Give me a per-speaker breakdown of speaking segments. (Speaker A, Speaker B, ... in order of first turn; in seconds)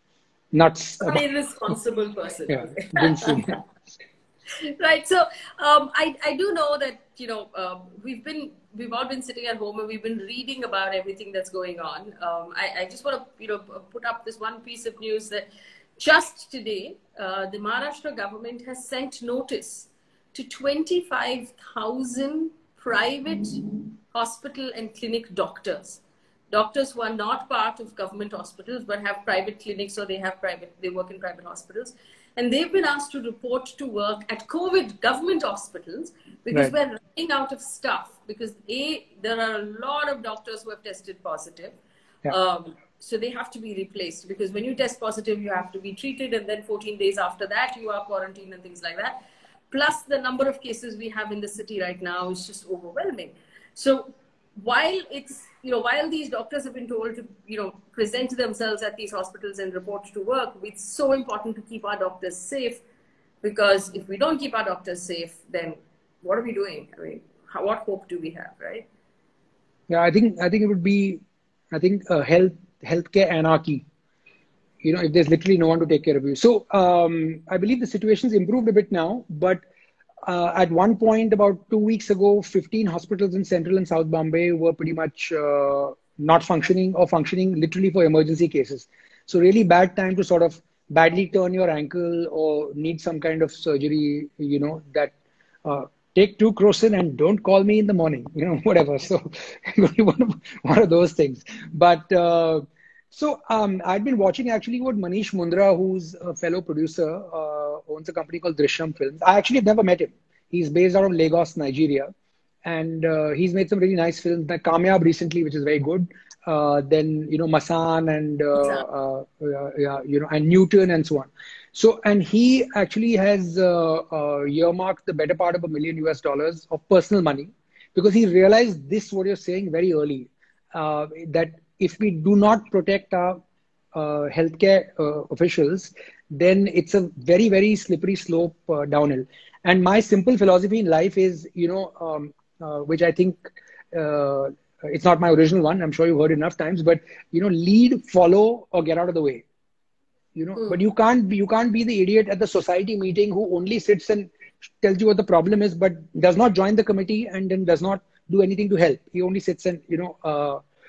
Speaker A: 0.5-1.2, 2.5-3.6, 69.9-73.8, 74.8-79.6, 80.2-95.1, 95.7-112.1, 112.7-133.4, 133.9-149.4, 150.3-160.6
Speaker B: 1.0-3.6, 4.8-49.1, 49.7-62.8, 63.4-68.9, 118.6-118.8